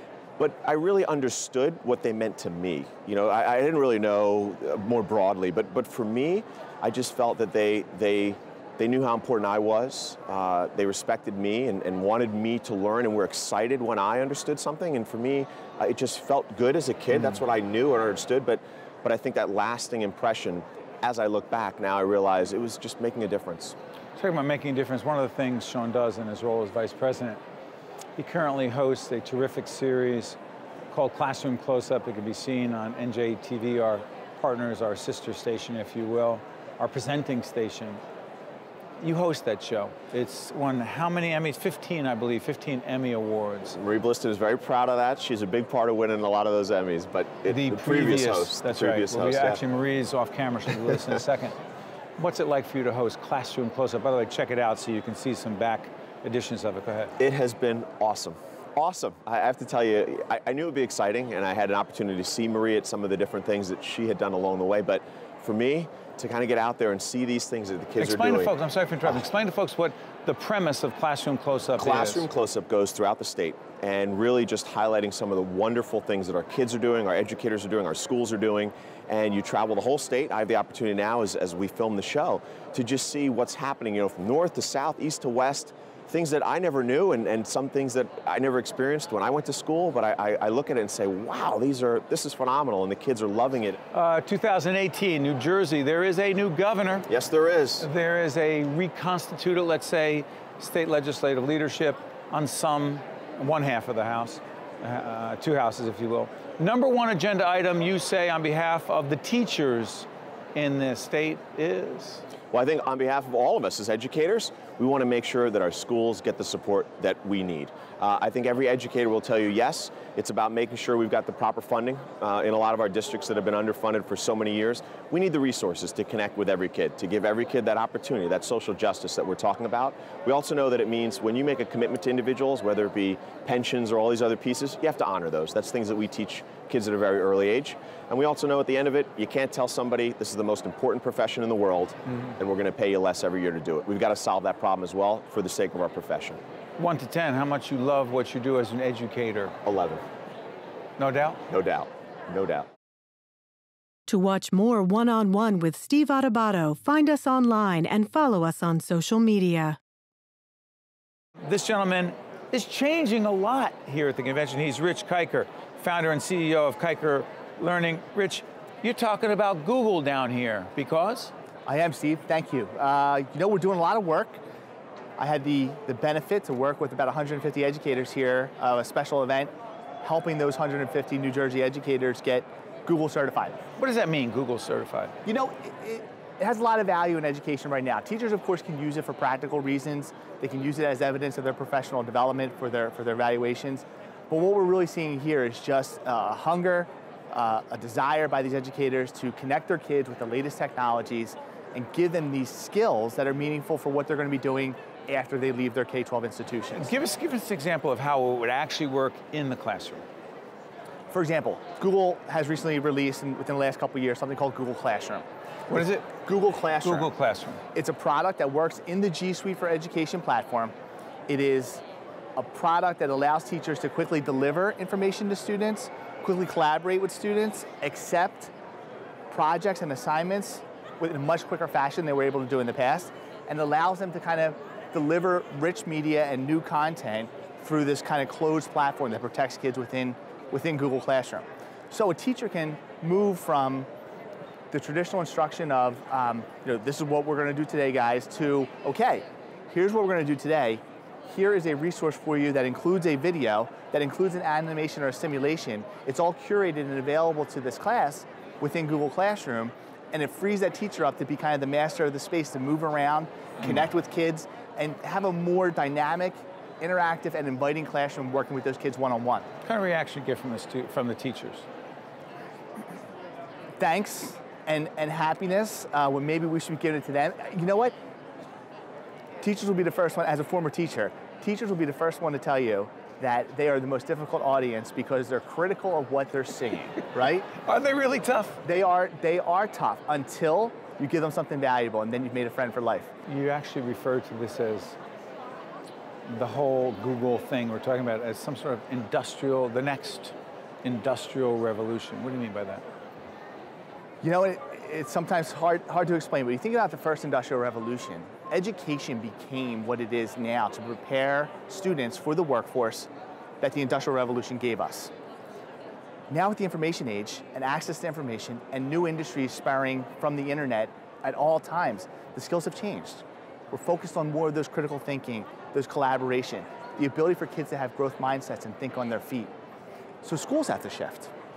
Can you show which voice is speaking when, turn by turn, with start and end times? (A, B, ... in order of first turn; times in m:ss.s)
0:00.4-0:23.8 A
0:17.1-0:17.4 B
0:24.2-0:27.4 B
0:28.2-0:30.4 B
0:30.9-0:38.0 B
0:39.0-0:43.8 B
0:43.7-0:49.6 A
0:47.5-0:51.6 B
0:52.2-0:57.1 B
0:57.2-1:08.5 A
1:08.0-1:12.2 B
1:11.8-1:33.8 A
1:33.9-1:37.1 B
1:37.1-1:37.9 A
1:37.8-1:52.2 B
1:52.5-2:26.4 A
2:26.8-2:29.5 B
2:29.6-2:30.0 A
2:31.0-2:31.4 B
2:31.5-2:32.7 A
2:34.1-2:39.8 C
2:41.4-2:51.3 B
2:51.6-2:54.4 D
2:55.2-2:59.5 D
3:00.0-3:03.6 D
3:03.8-3:05.1 B
3:05.2-3:26.9 D
3:26.7-3:30.0 B
3:31.1-3:37.1 D
3:35.7-3:36.2 B
3:36.8-3:37.6 B
3:37.7-3:40.7 D
3:41.3-3:41.8 D
3:42.4-3:48.5 D
3:49.3-4:03.9 D
4:04.7-4:29.5 D
4:29.6-4:31.6 B
4:33.8-4:37.9 D
4:39.4-4:47.5 D
4:47.5-4:48.6 B
4:48.6-4:53.1 D
4:53.2-4:55.0 B
4:56.3-5:02.8 B
5:04.2-5:13.1 D
5:13.6-5:15.1 D
5:16.3-5:29.5 D
5:30.2-5:31.3 D